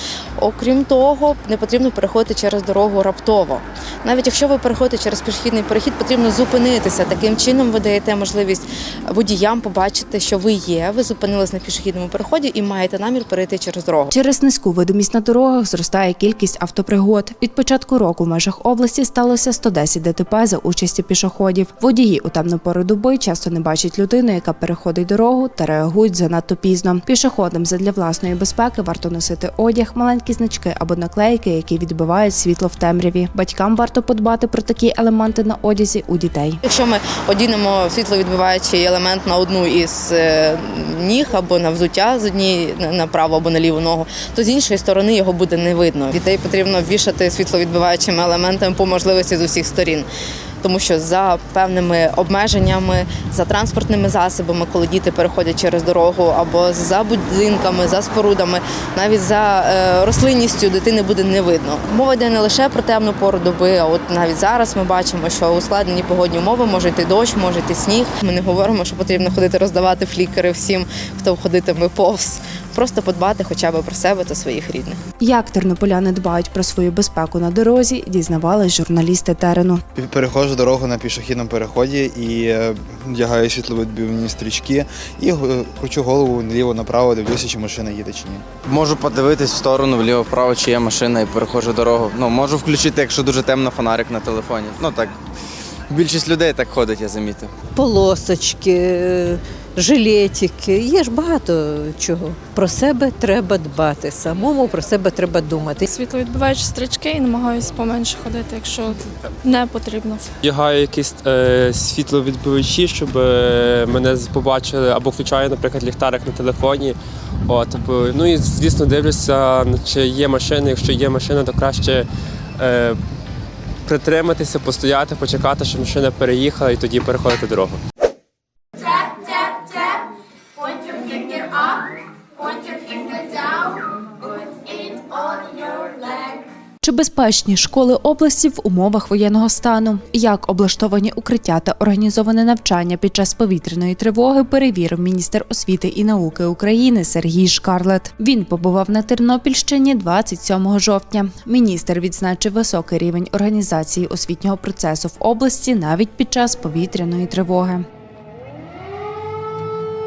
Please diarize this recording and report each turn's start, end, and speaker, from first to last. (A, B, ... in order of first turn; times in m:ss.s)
0:00.4-0:14.1 A
0:14.1-0:36.6 B
0:36.6-0:50.1 A
0:50.6-1:15.0 A
1:15.2-1:19.8 B
1:20.0-1:28.4 C
1:22.3-1:22.7 D
1:23.5-1:24.7 D
1:28.6-1:35.1 D
1:35.9-1:37.5 D
1:37.7-1:45.8 E
1:45.8-1:50.3 F
1:50.4-1:57.0 G
1:57.5-2:02.1 G
2:02.6-2:03.0 G
2:03.8-2:07.8 G
2:16.8-2:37.8 B